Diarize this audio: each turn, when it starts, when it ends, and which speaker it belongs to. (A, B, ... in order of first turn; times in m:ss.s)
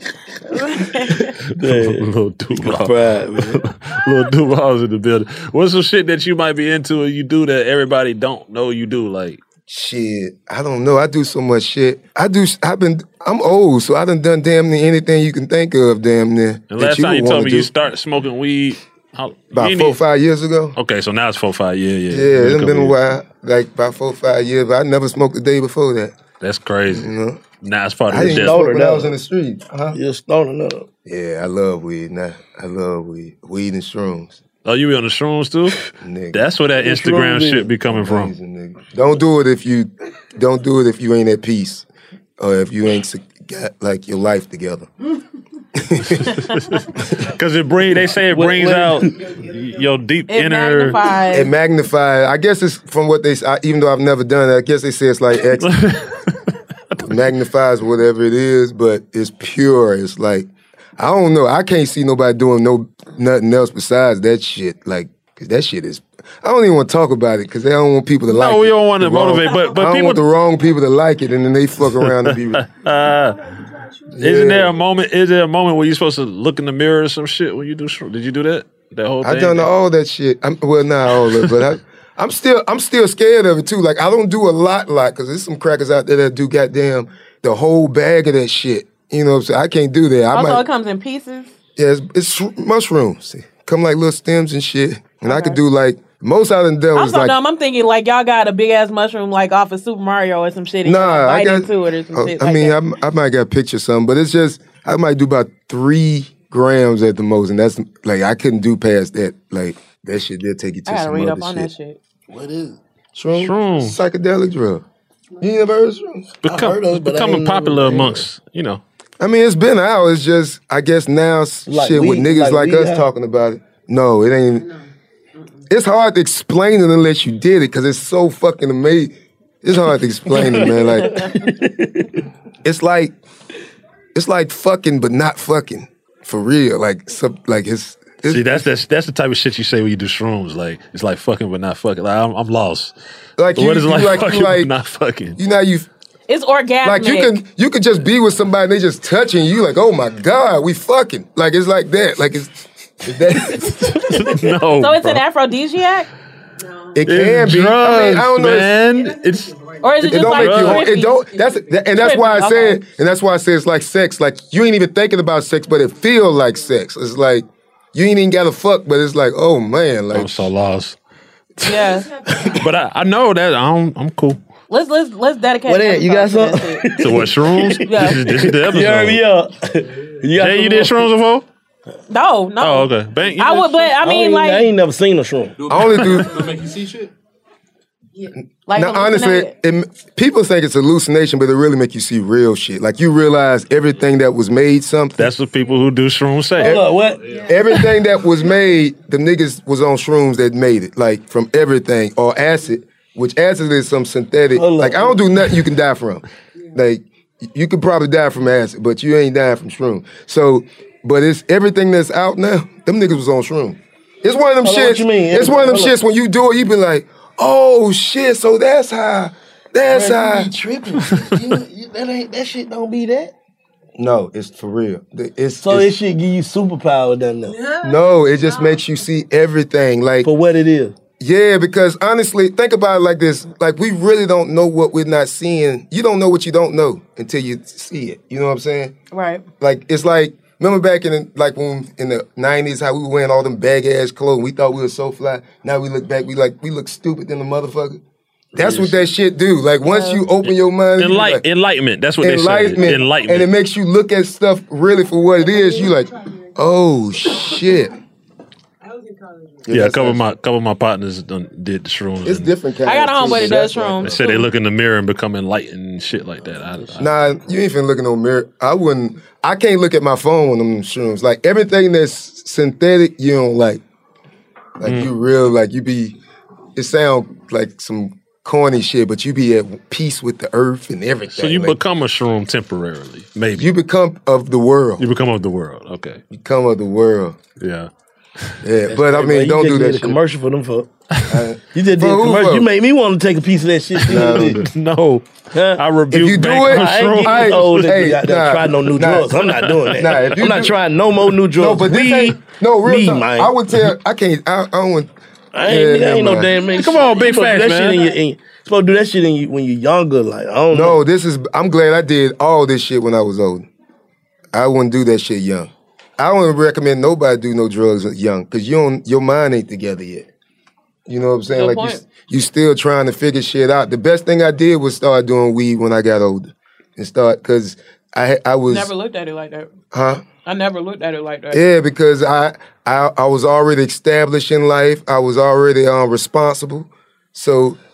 0:00.5-0:01.4 A
0:01.6-0:03.6 B
0:01.6-0:09.4 C
0:09.7-0:17.7 D
0:16.7-0:20.0 C
0:19.5-0:20.8 D
0:20.8-0:23.0 C
0:22.1-0:26.2 D
0:26.4-0:27.1 C
0:26.9-0:27.5 D
0:27.6-0:28.7 C
0:28.1-0:30.0 D
0:28.1-0:29.2 B
0:29.9-0:30.9 B
0:31.0-0:34.4 D
0:34.6-0:38.3 C
0:36.0-0:36.4 D
0:36.8-0:37.7 B
0:37.8-0:41.9 D
0:42.4-0:44.9 D
0:45.8-0:46.5 D
0:46.5-0:51.0 C
0:48.3-0:49.3 B
0:50.3-0:51.5 A
0:51.3-0:55.8 D
0:55.6-0:56.4 C
0:57.0-1:12.7 D
1:08.3-1:10.2 C
1:12.0-1:13.4 C
1:14.1-1:14.8 D
1:14.2-1:19.7 C
1:19.2-1:30.6 D
1:21.2-1:21.5 C
1:30.3-1:31.5 A
1:31.8-1:37.4 D
1:35.2-1:35.6 A
1:37.0-1:42.8 A
1:40.8-1:51.7 D
1:50.9-1:52.0 A
1:52.3-1:52.8 B
1:53.2-1:54.8 D
1:53.3-1:54.0 C
1:55.4-1:56.3 D
1:56.4-1:58.8 C
1:56.4-1:58.2 B
1:59.2-2:04.7 D
2:01.7-2:03.0 B
2:05.7-2:11.3 D
2:10.3-2:12.2 B
2:11.0-2:11.3 A
2:12.6-2:13.1 D
2:14.2-2:18.7 D
2:18.3-2:22.9 C
2:23.4-2:24.7 D
2:23.5-2:25.4 C
2:25.4-2:25.9 D
2:26.3-2:27.4 A
2:26.8-2:34.2 D
2:33.6-2:35.2 C
2:34.8-2:36.1 A
2:37.0-2:38.8 D
2:37.1-2:40.9 C
2:39.8-2:41.2 A
2:40.0-2:50.5 D
2:42.0-2:42.8 A
2:50.1-2:51.0 C
2:51.6-2:54.4 C
2:51.6-2:52.1 A
2:54.7-2:56.9 A
2:55.7-3:01.1 B
2:57.0-2:59.2 C
2:57.9-2:58.2 A
3:00.4-3:01.4 C
3:02.1-3:04.7 A
3:02.6-3:03.9 C
3:04.0-3:05.7 B
3:05.7-3:06.6 D
3:05.9-3:06.5 C
3:08.4-3:15.3 D
3:08.7-3:09.5 A
3:15.2-3:16.8 C
3:16.6-3:17.5 B
3:16.6-3:40.6 D
3:24.5-3:25.2 B
3:34.6-3:36.0 B
3:39.9-3:43.3 B
3:44.0-3:45.9 D
3:45.6-3:47.7 B
3:47.7-3:50.3 D
3:50.2-3:51.0 B
3:51.2-3:59.0 D
3:59.1-3:59.4 A
3:59.6-4:08.0 D
4:08.6-4:11.4 D
4:08.6-4:09.0 C
4:09.9-4:10.2 A
4:10.5-4:13.5 C
4:12.2-4:18.0 D
4:19.6-4:20.2 D
4:19.7-4:22.5 C
4:22.2-4:24.2 D
4:22.8-4:24.4 A
4:23.3-4:27.1 C
4:27.0-4:33.8 D
4:34.8-4:36.2 D
4:34.8-4:35.1 C
4:36.8-4:41.8 D
4:41.3-4:43.7 C
4:43.6-4:45.1 D
4:45.0-4:46.2 C
4:46.3-4:47.4 D
4:47.6-4:47.9 C
4:48.6-4:50.2 D
4:48.9-4:50.9 B
4:51.2-4:51.4 C
4:51.3-4:52.7 D
4:51.7-4:54.6 B
4:54.0-4:57.9 C
4:54.1-4:54.6 D
4:55.5-4:55.8 B
4:56.1-4:59.3 D
4:56.7-5:03.5 B
4:59.5-5:00.4 C
5:00.0-5:00.8 D
5:01.6-5:05.1 D
5:05.5-5:11.0 B
5:05.6-5:06.5 D
5:06.7-5:08.1 C
5:10.7-5:13.7 D
5:14.5-5:20.3 D
5:21.1-5:28.9 D
5:21.5-5:22.0 A
5:28.7-5:29.7 A
5:29.9-5:30.2 D
5:30.4-5:31.6 A
5:31.5-5:37.8 D